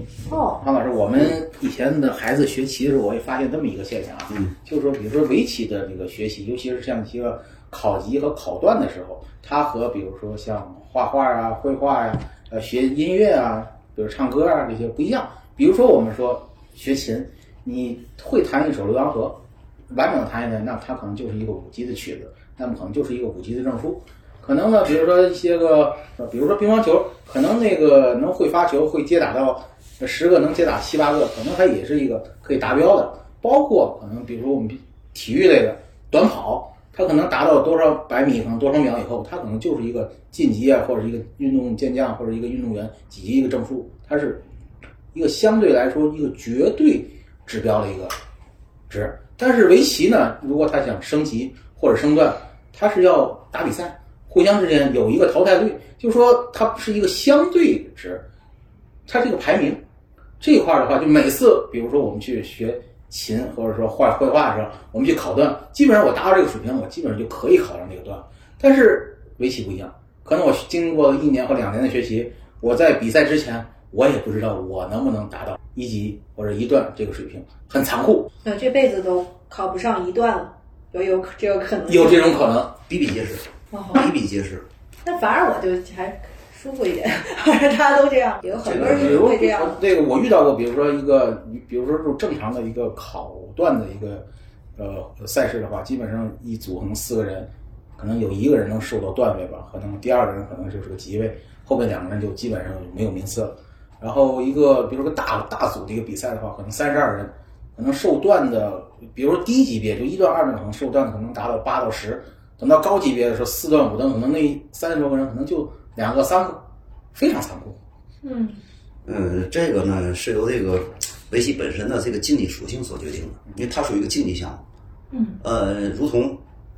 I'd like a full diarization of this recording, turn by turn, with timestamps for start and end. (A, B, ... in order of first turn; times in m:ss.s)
0:00.3-0:00.6 A
0:00.6-0:44.4 B
0:04.3-0:04.5 C
0:45.1-0:48.2 B
0:48.9-0:58.3 B
0:59.1-0:59.8 B
1:00.4-1:18.3 B
1:18.4-1:22.4 A
1:21.9-1:22.8 B
1:22.9-1:24.7 C
1:23.7-1:24.1 A
1:25.0-1:29.8 A
1:28.6-1:29.3 C
1:28.7-1:34.3 B
1:34.8-1:56.6 B
1:57.1-1:57.8 B
1:58.2-1:58.6 A
1:59.0-2:04.6 C
2:05.1-2:05.4 A
2:05.4-2:06.4 C